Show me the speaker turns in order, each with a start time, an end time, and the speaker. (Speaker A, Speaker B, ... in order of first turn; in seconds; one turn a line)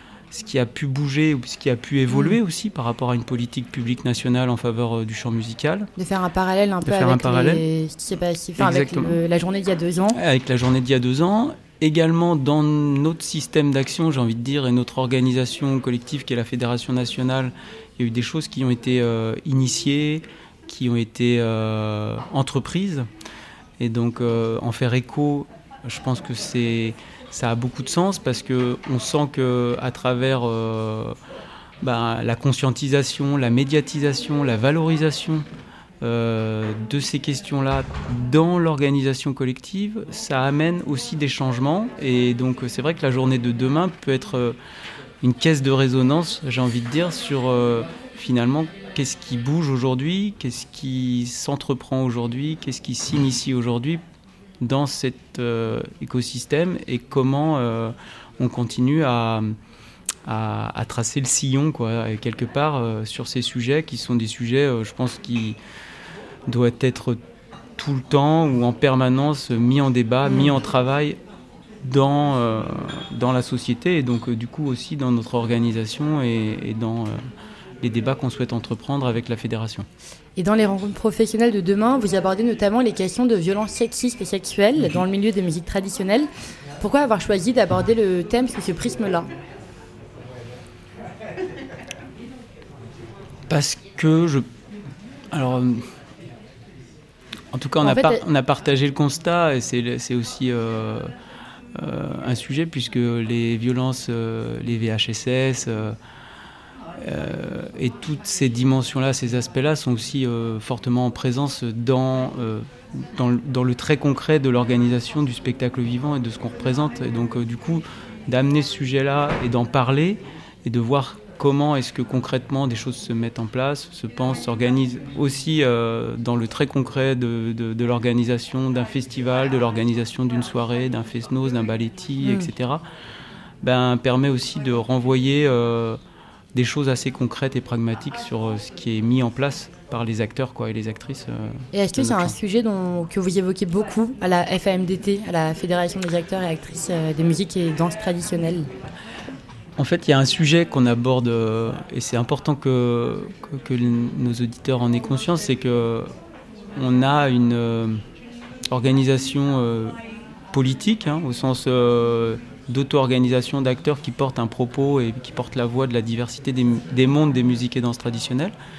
Speaker A: 0.3-5.9
Speaker B: 2.1-2.4
Speaker B: 6.0-10.2
Speaker A: 6.9-7.6
Speaker A: 8.6-9.2
Speaker A: 10.1-23.1
Speaker A: 23.8-31.2
Speaker A: 31.8-35.5
Speaker A: 36.0-44.6
Speaker A: 45.2-54.0
Speaker A: 54.6-59.5
Speaker A: 60.3-65.6
Speaker A: 66.5-67.2
Speaker A: 67.8-71.2
Speaker A: 71.8-77.2
Speaker A: 77.8-79.9
Speaker B: 80.4-86.3
Speaker B: 86.8-89.3
Speaker A: 93.5-94.5
Speaker A: 95.3-95.9
Speaker A: 97.5-101.1
Speaker B: 97.8-98.2
Speaker A: 101.8-106.0
Speaker A: 107.0-132.8
Speaker B: 132.2-132.5
Speaker A: 133.6-136.0
Speaker A: 136.6-142.3
Speaker B: 141.7-148.7
Speaker A: 149.8-156.1
Speaker A: 156.8-158.0
Speaker A: 158.7-160.0
Speaker A: 160.5-168.5